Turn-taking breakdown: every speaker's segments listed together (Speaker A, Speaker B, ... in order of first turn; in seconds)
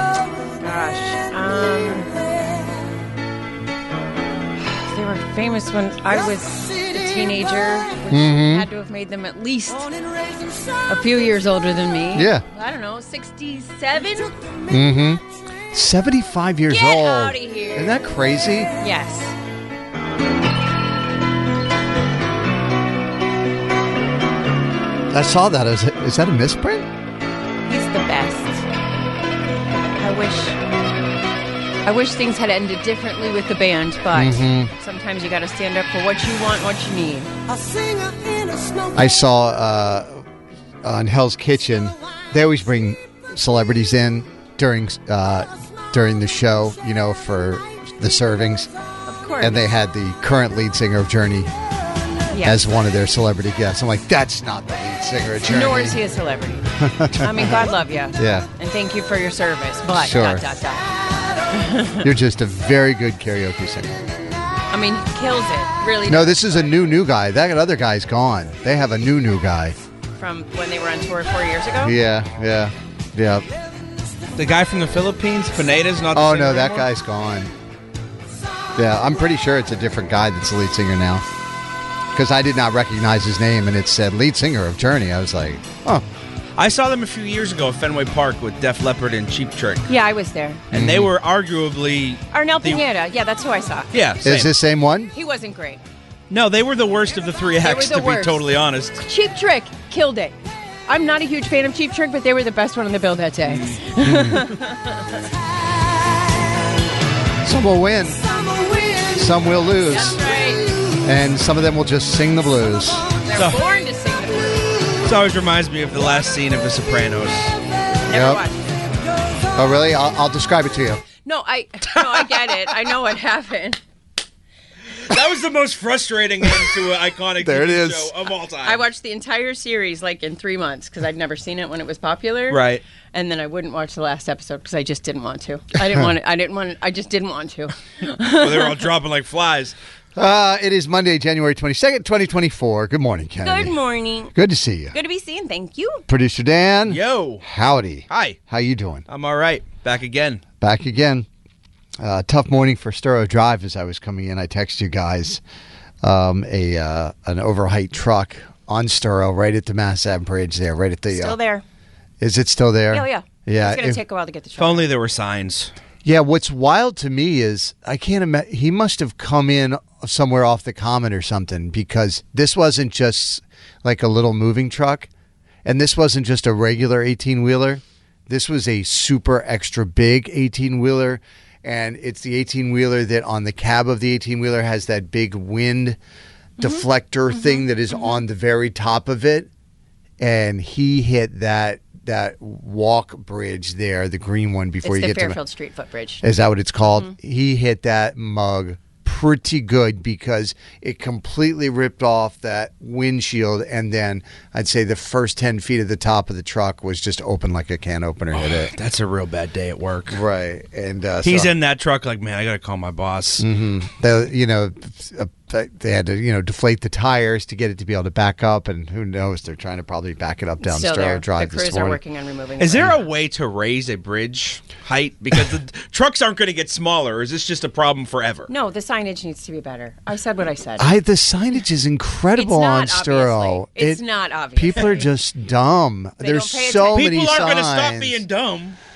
Speaker A: 0.6-2.2, 4.6-9.9, 10.9-14.3, 16.7-18.0, 18.8-19.3, 27.7-28.6, 30.0-30.6, 31.9-37.3, 49.1-49.7, 52.3-52.6, 55.4-56.7, 57.2-62.0, 64.7-66.7, 70.2-72.0, 89.9-90.6, 92.3-93.9, 95.1-95.8, 97.6-98.5, 99.0-100.4, 100.9-104.9, 109.9-110.6, 113.2-114.7, 118.1-118.8, 121.2-123.8, 128.6-132.6, 133.1-138.7, 143.4-144.3, 144.9-146.0, 161.1-161.6, 162.9-164.9, 187.3-188.2, 194.8-196.2, 220.6-223.0, 228.5-230.9, 232.4-235.1, 236.2-237.1
Speaker B: 8.1-8.7, 12.1-12.4, 14.7-18.7, 25.1-26.9, 34.1-34.7, 38.9-40.2, 40.8-48.7, 49.4-51.5, 52.4-56.0, 56.8-58.5, 59.9-60.4, 62.0-64.1, 66.1-69.8, 71.8-73.5, 76.1-77.5, 78.8-81.2, 82.1-86.0, 90.7-91.1, 94.2-95.1, 104.1-104.4, 107.4-108.2, 109.1-110.2, 111.0-113.0, 118.1-118.4, 119.5-121.0, 127.4-128.1, 140.2-143.8, 144.3-145.0, 146.1-149.0, 150.6-151.3, 152.0-155.4, 156.0-161.4, 162.2-164.0, 166.0-175.1, 175.7-186.0, 186.6-189.5, 190.2-195.4, 196.2-208.7, 210.1-211.5, 213.4-222.0, 230.8-234.0, 234.6-238.2
Speaker C: 74.3-76.9, 86.6-89.9, 90.7-92.8, 93.9-94.5, 96.3-99.0, 115.0-117.5, 125.1-128.8, 132.5-132.8, 138.3-139.8, 146.9-147.4, 148.1-148.4, 149.1-150.4, 164.6-165.7, 208.3-210.2, 211.2-213.4, 222.6-228.5, 236.9-238.8